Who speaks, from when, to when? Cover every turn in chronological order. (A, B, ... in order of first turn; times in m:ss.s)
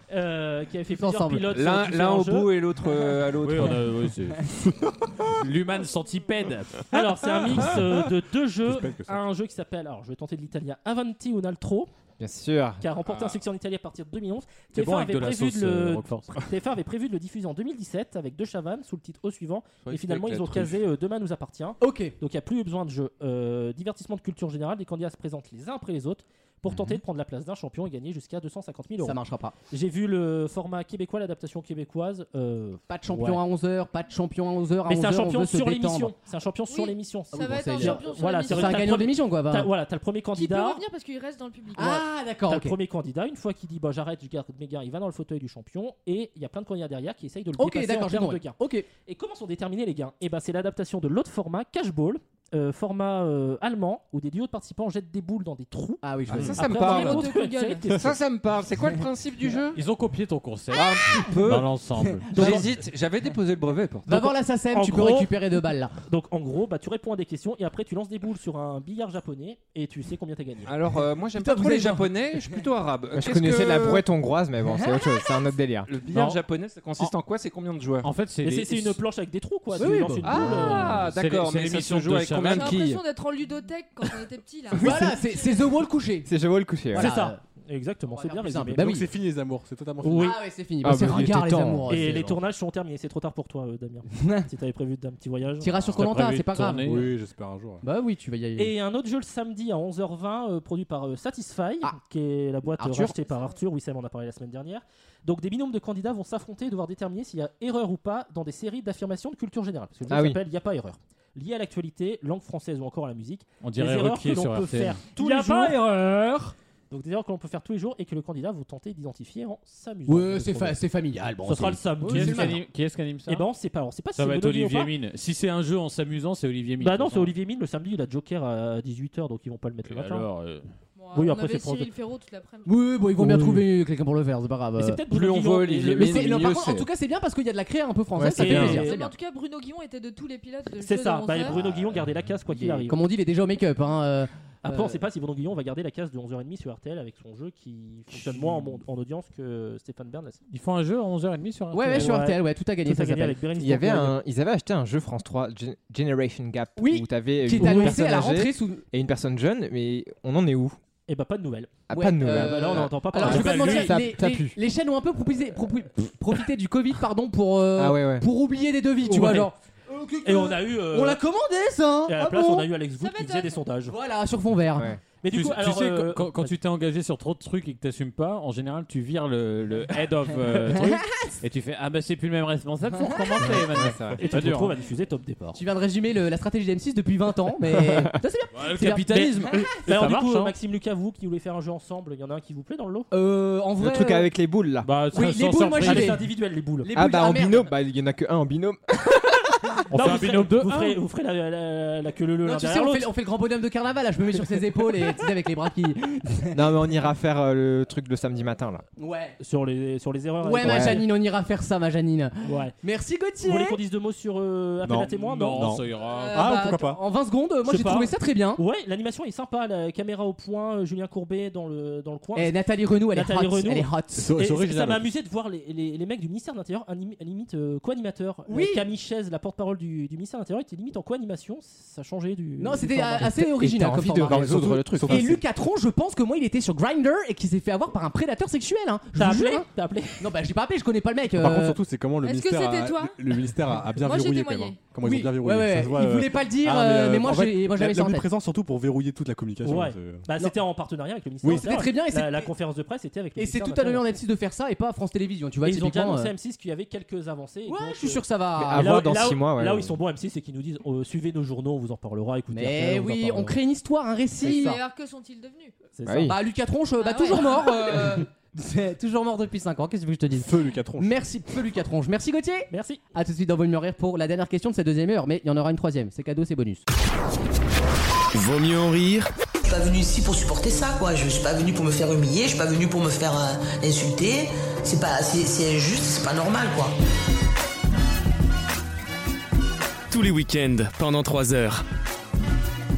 0:00.1-0:02.5 A
0:00.9-0:01.5 B
0:01.5-0:03.8 C
0:03.4-0:04.5 D
0:05.4-0:06.8 D
0:06.9-0:11.9 A
0:07.5-0:09.2 E
0:12.2-0:12.8 F
0:12.8-0:29.2 A
0:13.0-0:13.4 C
0:14.7-0:16.3 D
0:19.8-0:20.7 C
0:21.8-0:22.1 B
0:29.0-0:29.5 B
0:29.7-0:33.4 A
0:32.9-0:36.1 B
0:34.8-0:40.8 A
0:36.7-0:39.0 G
0:37.3-0:39.7 B
0:40.3-0:42.0 G
0:41.7-0:42.8 B
0:41.8-0:58.2 A
0:47.6-0:48.9 B
0:56.0-0:56.6 B
0:56.3-0:59.8 C
0:56.8-0:57.9 G
0:59.7-1:02.3 D
1:00.7-1:01.7 C
1:02.2-1:02.6 B
1:02.3-1:02.6 A
1:02.3-1:04.2 C
1:04.1-1:05.9 B
1:04.1-1:05.3 A
1:06.0-1:10.7 A
1:10.6-1:14.0 C
1:11.4-1:12.1 B
1:13.1-1:15.9 F
1:14.7-1:15.0 B
1:15.9-1:18.1 C
1:16.1-1:16.4 D
1:18.0-1:19.0 D
1:18.4-1:21.1 A
1:19.8-1:20.4 B
1:20.2-1:23.0 C
1:20.4-1:22.8 D
1:22.5-1:25.5 G
1:24.7-1:26.3 B
1:26.2-1:27.1 F
1:26.9-1:27.4 B
1:26.9-1:29.0 A
1:28.1-1:29.0 B
1:28.8-1:30.4 E
1:30.0-1:30.4 A
1:30.2-1:32.4 B
1:30.8-1:32.3 F
1:31.9-1:35.9 A
1:34.2-1:34.5 B
1:35.6-1:36.9 B
1:36.0-1:37.1 D
1:36.0-1:37.8 E
1:37.8-1:38.7 B
1:38.6-2:00.8 A
1:42.8-1:43.2 B
1:50.1-1:50.4 F
1:53.6-1:55.8 D
2:00.1-2:02.6 B
2:01.4-2:02.6 A
2:02.1-2:03.4 D
2:03.3-2:04.9 A
2:04.1-2:07.3 D
2:06.8-2:10.3 A
2:09.8-2:10.6 D
2:11.0-2:12.7 G
2:11.1-2:11.9 A
2:12.6-2:15.0 B
2:14.8-2:16.4 A
2:15.1-2:16.9 C
2:16.0-2:19.1 B
2:18.2-2:18.9 F
2:18.4-2:19.1 A
2:18.5-2:21.6 G
2:20.8-2:23.0 A
2:21.2-2:21.6 B
2:22.5-2:25.0 B
2:24.6-2:30.4 A
2:28.2-2:28.6 B
2:30.5-2:32.2 D
2:31.7-2:33.4 B
2:31.9-2:34.2 A
2:33.6-2:40.8 F
2:36.8-2:38.8 B
2:37.5-2:38.1 A
2:41.1-2:44.0 A
2:41.9-2:44.6 F
2:42.2-2:52.7 B
2:47.7-2:48.3 F
2:49.0-2:49.5 F
2:50.2-2:51.2 A
2:52.1-2:54.0 A
2:53.0-2:53.6 G
2:53.9-2:55.0 B
2:54.7-2:55.0 F
2:55.1-2:56.5 A
2:55.3-3:04.7 D
3:00.7-3:01.4 B
3:03.4-3:04.2 F
3:04.2-3:05.6 A
3:05.5-3:09.7 B
3:07.7-3:08.0 F
3:08.5-3:10.5 D
3:09.8-3:13.1 A
3:13.1-3:14.3 B
3:13.8-3:14.9 F
3:14.8-3:16.2 D
3:15.1-3:16.2 B
3:15.8-3:16.9 A
3:16.8-3:17.7 B
3:16.9-3:19.2 F
3:19.9-3:21.0 D
3:19.9-3:23.1 A
3:22.4-3:26.9 B
3:26.5-3:28.8 F
3:29.0-3:29.4 B
3:29.4-3:31.1 A
3:30.4-3:33.8 B
3:30.6-3:31.0 F
3:32.4-3:32.7 A
3:33.4-3:35.8 A
3:34.8-3:37.0 E
3:35.4-3:36.5 D
3:36.3-3:38.6 B
3:37.6-3:42.5 A
3:42.4-3:44.3 B
3:43.1-3:53.4 A
3:44.1-3:45.1 E
3:48.5-3:48.8 B
3:52.6-3:59.7 B
3:53.4-3:55.4 F
3:53.9-3:55.4 E
3:59.2-4:00.3 A
4:00.2-4:01.8 B
4:01.4-4:10.3 E
4:02.2-4:03.4 G
4:04.0-4:04.9 G
4:05.0-4:08.3 B
4:09.6-4:14.1 A
4:11.4-4:12.5 B
4:13.4-4:16.3 B
4:15.6-4:23.6 A
4:17.7-4:19.0 B
4:18.6-4:20.0 F
4:22.5-4:24.8 B
4:24.4-4:25.9 G
4:25.9-4:26.4 A
4:26.0-4:26.3 F
4:26.2-4:36.8 B
4:27.0-4:28.0 G
4:30.4-4:31.2 E
4:32.7-4:33.0 A
4:38.3-4:39.3 H
4:39.6-4:46.9 I
4:50.1-4:51.8 H